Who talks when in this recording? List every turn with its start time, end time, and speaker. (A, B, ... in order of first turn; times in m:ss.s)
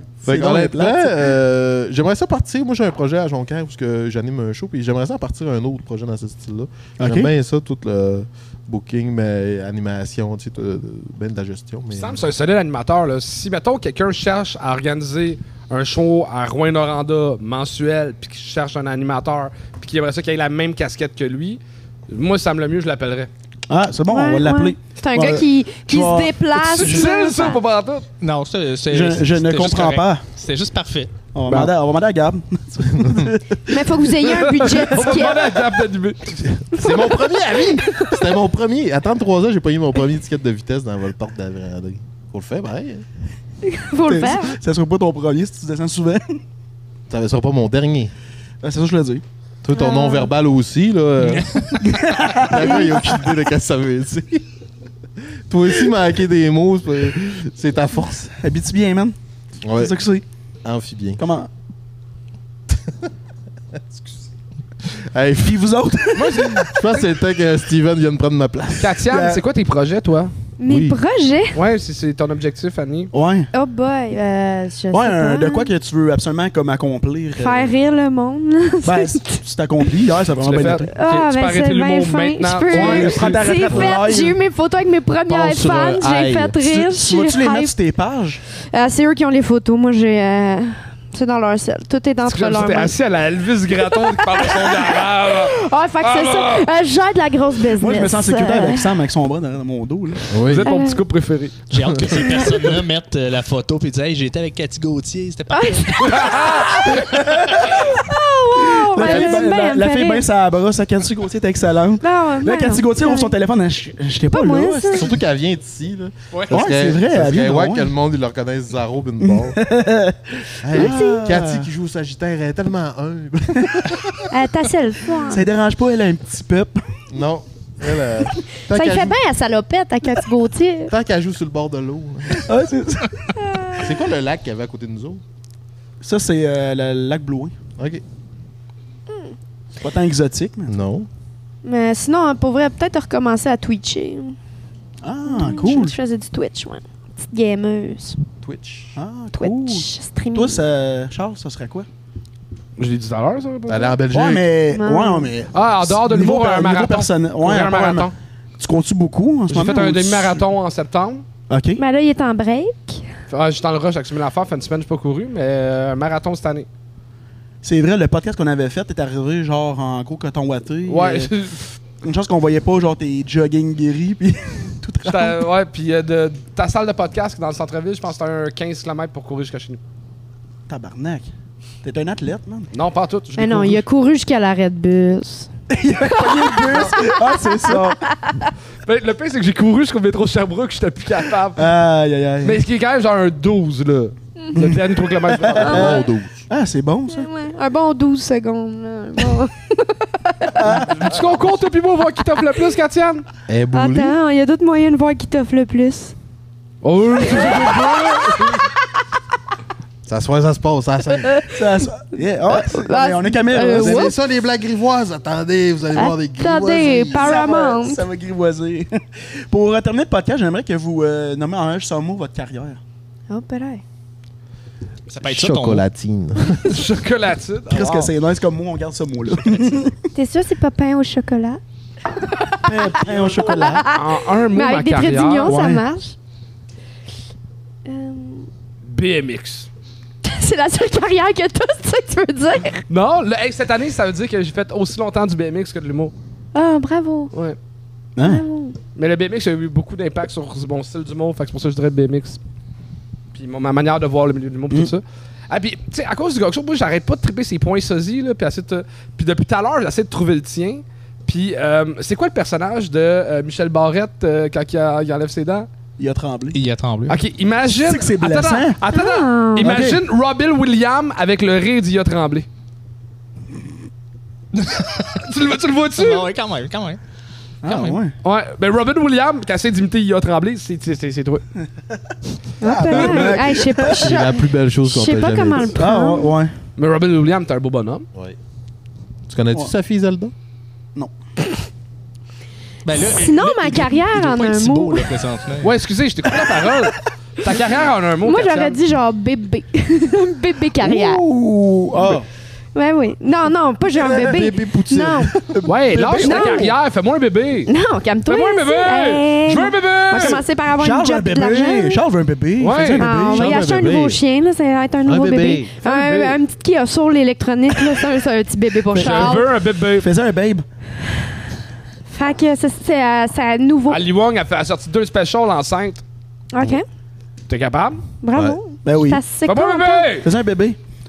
0:00.2-0:12.3 A
0:00.2-0:01.3 B
0:07.0-0:07.3 B
0:11.9-0:23.3 C
0:23.7-0:27.1 B
0:24.1-0:27.6 D
0:26.6-0:28.1 C
0:28.2-0:31.1 E
0:28.9-0:30.2 B
0:31.3-0:34.4 B
0:32.8-0:33.3 A
0:33.6-0:35.6 D
0:34.3-0:36.5 C
0:36.4-0:43.0 A
0:36.7-0:38.2 D
0:43.6-0:44.6 D
0:44.1-0:46.4 B
0:47.1-0:48.1 A
0:48.6-0:49.2 B
0:49.6-0:54.4 A
0:49.7-0:50.3 D
0:51.2-0:51.9 E
0:51.8-0:53.2 B
0:55.5-0:58.3 A
0:58.4-0:59.2 B
0:59.6-1:00.0 A
0:59.8-1:00.2 B
1:00.6-1:01.2 A
1:01.2-1:01.5 B
1:02.7-1:02.9 A
1:03.7-1:04.2 A
1:04.8-1:05.6 A
1:05.4-1:06.7 B
1:06.2-1:06.7 C
1:06.6-1:09.0 A
1:08.8-1:10.3 C
1:09.1-1:09.4 B
1:10.6-1:11.6 D
1:10.7-1:11.0 A
1:11.5-1:13.1 C
1:13.1-1:13.5 B
1:13.5-1:15.7 D
1:14.9-1:17.7 B
1:17.4-1:19.4 D
1:18.8-1:20.9 B
1:20.4-1:23.5 C
1:20.9-1:27.7 D
1:22.7-1:24.4 B
1:25.3-1:28.4 B
1:25.5-1:26.2 A
1:28.7-1:33.0 D
1:32.2-1:36.7 C
1:33.8-1:39.0 D
1:37.8-1:40.2 B
1:40.3-1:40.7 A
1:40.5-1:41.6 C
1:40.6-1:41.0 D
1:41.7-1:46.4 E
1:41.8-1:42.2 A
1:42.2-1:42.6 D
1:45.5-1:50.3 D
1:46.2-1:46.7 C
1:47.1-1:47.8 B
1:48.6-1:55.1 B
1:52.0-1:53.4 D
1:54.3-1:55.1 D
1:54.9-1:59.6 A
1:56.3-1:56.6 E
1:56.5-1:57.9 B
1:59.2-2:01.7 B
2:00.6-2:04.3 A
2:00.7-2:01.3 D
2:04.3-2:05.5 D
2:05.2-2:06.8 B
2:07.1-2:09.2 A
2:08.6-2:10.9 D
2:10.9-2:12.5 A
2:12.3-2:13.4 B
2:13.4-2:14.0 D
2:13.8-2:15.2 A
2:16.0-2:17.6 B
2:17.8-2:18.0 A
2:19.8-2:20.7 B
2:20.7-2:21.1 A
2:21.6-2:24.4 D
2:25.0-2:26.0 B
2:25.2-2:28.2 D
2:28.4-2:28.9 A
2:29.0-2:31.9 B
2:29.3-2:30.6 D
2:32.8-2:34.0 C
2:33.7-2:34.5 A
2:34.1-2:40.4 B
2:34.7-2:35.3 D
2:35.5-2:38.1 C
2:39.5-2:41.2 C
2:41.5-2:41.8 B
2:41.8-2:43.1 D
2:43.3-2:46.7 C
2:47.6-2:51.3 B
2:50.9-2:51.7 C
2:52.0-2:55.5 B
2:55.0-2:59.8 C
3:00.7-3:01.3 B
3:01.8-3:02.7 B
3:02.7-3:03.8 C
3:03.4-3:05.5 D
3:05.7-3:08.1 B
3:06.0-3:08.5 D
3:08.8-3:11.6 C
3:11.6-3:12.6 B
3:12.4-3:16.0 C
3:14.5-3:17.3 B
3:15.6-3:16.4 A
3:15.6-3:16.1 D
3:17.1-3:20.7 D
3:20.6-3:20.9 B
3:20.7-3:23.2 C
3:23.5-3:24.2 A
3:23.7-3:26.1 D
3:26.8-3:28.6 C
3:27.2-3:28.5 D
3:30.0-3:31.4 A
3:31.2-3:31.5 D
3:31.5-3:34.1 B
3:32.5-3:34.1 D
3:33.7-3:37.3 A
3:35.9-3:38.0 D
3:37.1-3:42.8 B
3:43.3-3:43.8 D
3:45.1-3:45.8 E
3:45.2-3:46.8 A
3:46.7-3:48.1 C
3:47.7-3:50.0 B
3:50.1-3:51.6 D
3:52.1-3:56.2 D
3:52.6-3:53.9 B
3:53.6-3:53.8 A
3:53.9-3:55.6 C
3:55.4-3:55.8 B
3:57.9-3:58.5 D
3:58.8-3:59.7 C
4:00.2-4:02.8 D
4:02.9-4:06.1 C
4:06.5-4:07.3 D
4:08.2-4:08.4 B
4:08.2-4:08.8 D
4:09.0-4:12.4 C
4:13.3-4:25.7 C
4:26.0-4:26.6 B
4:26.5-4:27.2 E
4:27.1-4:32.5 C
4:27.7-4:28.8 B
4:28.9-4:29.8 D
4:29.6-4:30.0 B
4:34.6-4:35.2 E
4:35.2-4:36.3 C
4:36.0-4:37.0 E
4:37.6-4:38.2 B
4:37.6-4:38.0 E
4:38.2-4:41.4 C
4:42.6-4:46.4 D
4:42.6-4:44.1 B
4:42.9-4:43.6 C
4:43.9-4:45.8 A
4:45.8-4:46.6 B
4:46.8-4:48.1 C
4:49.3-4:50.3 A
4:52.8-4:55.7 E
4:53.0-4:55.2 D
4:55.6-4:58.8 C
4:58.2-5:01.2 D
5:00.8-5:02.3 B
5:02.8-5:05.3 D
5:03.9-5:05.7 A
5:05.6-5:06.7 B
5:05.7-5:07.7 C
5:06.2-5:06.7 D
5:07.7-5:12.0 D
5:08.3-5:10.4 C
5:10.2-5:13.6 B
5:12.6-5:13.0 C
5:13.0-5:19.5 D
5:13.2-5:14.2 A
5:15.1-5:15.7 A
5:15.8-5:16.4 C
5:18.9-5:19.5 B
5:18.9-5:20.1 C
5:20.0-5:20.7 B
5:22.1-5:24.0 D
5:23.9-5:26.0 C
5:26.5-5:26.8 D
5:27.5-5:28.0 C
5:28.2-5:30.1 D
5:28.3-5:28.6 A
5:28.8-5:29.2 B
5:29.5-5:30.3 C
5:30.2-5:30.8 B